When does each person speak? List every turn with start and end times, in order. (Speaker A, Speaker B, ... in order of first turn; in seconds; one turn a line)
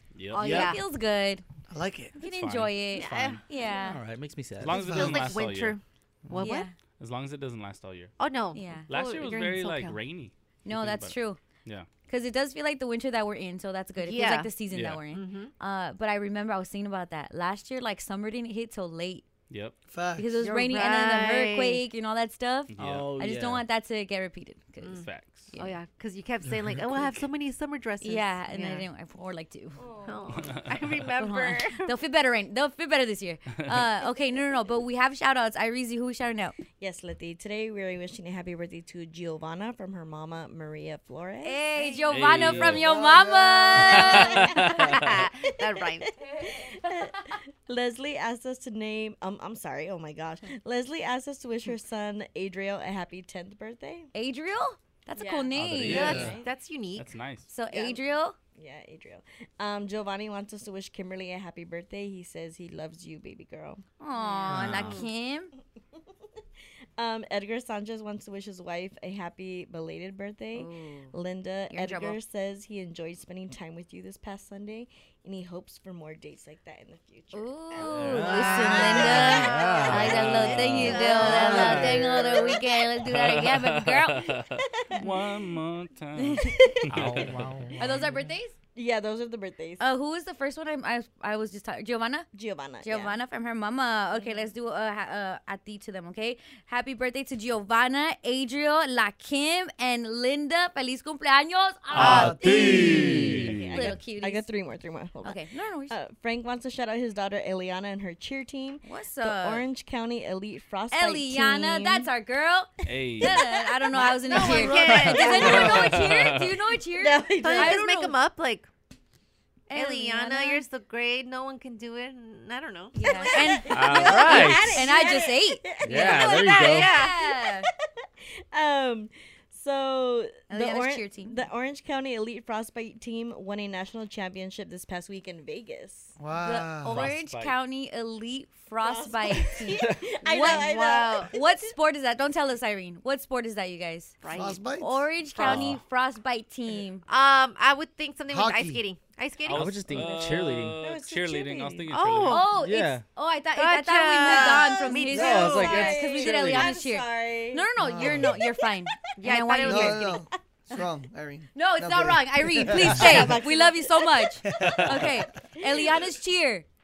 Speaker A: 0.1-0.6
Speaker B: 0.3-0.8
Speaker C: 0.3-1.4
Speaker D: 0.4-0.7
Speaker E: 1.7-2.1
Speaker C: 2.2-4.0
Speaker A: 2.2-3.4
Speaker B: 3.0-3.4
Speaker D: 3.8-5.0
Speaker A: 4.6-5.8
Speaker B: 4.8-6.7
Speaker E: 4.8-5.4
Speaker C: 6.4-6.7
Speaker A: 7.0-8.1
Speaker B: 8.2-10.0
Speaker C: 8.5-8.9
Speaker A: 8.9-11.9
Speaker C: 10.7-11.4
Speaker C: 12.1-19.2
Speaker B: 14.0-14.5
Speaker A: 14.7-15.0
Speaker B: 15.1-15.5
Speaker A: 19.5-19.8
Speaker E: 19.9-20.3
Speaker C: 20.2-25.7
Speaker B: 20.4-21.8
Speaker A: 22.7-23.1
Speaker D: 22.8-23.6
Speaker B: 24.8-28.9
Speaker A: 24.9-25.5
Speaker C: 28.0-29.9
Speaker F: 29.8-30.5
Speaker B: 30.1-31.9
Speaker A: 30.3-31.0
Speaker C: 31.2-36.5
Speaker F: 36.8-42.0
Speaker C: 41.4-45.0
Speaker A: 42.1-42.9
Speaker E: 42.7-44.0
Speaker A: 43.8-45.0
Speaker F: 44.0-54.1
Speaker B: 44.9-46.0
Speaker C: 54.1-56.3
Speaker F: 55.1-56.5
Speaker A: 55.6-56.4
Speaker B: 55.9-57.1
Speaker A: 57.0-57.5
Speaker C: 57.5-58.4
Speaker F: 57.7-58.0
Speaker F: 58.6-63.8
Speaker C: 64.0-65.5
Speaker B: 64.2-65.1
Speaker A: 64.5-65.0
Speaker F: 67.0-79.8
Speaker C: 70.5-71.1
Speaker C: 71.7-72.2
Speaker C: 77.3-84.3
Speaker D: 77.9-82.2
Speaker B: 78.2-82.5
Speaker A: 80.0-81.0
Speaker F: 81.2-82.8
Speaker A: 83.0-87.4
Speaker F: 84.8-85.3
Speaker C: 86.2-86.6
Speaker F: 86.5-86.9
Speaker D: 86.9-88.0
Speaker C: 87.8-88.5
Speaker F: 88.8-89.8
Speaker C: 89.8-92.3
Speaker F: 92.3-93.2
Speaker C: 92.8-104.5
Speaker F: 94.1-94.5
Speaker A: 101.9-103.9
Speaker E: 102.0-103.2
Speaker F: 102.4-112.1
Speaker C: 105.2-106.0
Speaker C: 108.8-109.7
Speaker C: 110.9-118.2
Speaker A: 112.8-113.4
Speaker F: 113.2-114.8
Speaker B: 114.2-116.0
Speaker A: 115.2-116.5
Speaker F: 116.9-117.8
Speaker B: 117.4-118.7
Speaker C: 119.7-120.7
Speaker B: 119.7-124.7
Speaker C: 123.0-127.7
Speaker F: 123.2-126.5
Speaker D: 123.7-124.8
Speaker A: 123.9-124.2
Speaker D: 125.8-126.9
Speaker B: 126.4-127.2
Speaker F: 127.2-127.6
Speaker F: 128.5-136.2
Speaker C: 130.5-131.4
Speaker E: 136.2-137.1
Speaker C: 136.4-144.2
Speaker D: 136.9-137.6
Speaker F: 138.8-141.7
Speaker B: 140.4-141.3
Speaker B: 144.2-144.6
Speaker E: 144.3-145.1
Speaker C: 144.8-147.0
Speaker B: 145.3-145.7
Speaker A: 145.4-145.8
Speaker B: 147.1-149.8
Speaker E: 148.3-148.8
Speaker A: 149.4-152.4
Speaker D: 149.5-150.8
Speaker F: 150.8-151.9
Speaker B: 151.9-152.6
Speaker C: 152.3-160.1
Speaker D: 152.5-153.0
Speaker B: 153.6-155.8
Speaker F: 154.3-158.8
Speaker D: 155.1-156.7
Speaker E: 157.8-158.3
Speaker B: 159.2-160.2
Speaker E: 159.6-163.3
Speaker C: 161.6-166.7
Speaker F: 162.8-166.1
Speaker D: 164.6-165.0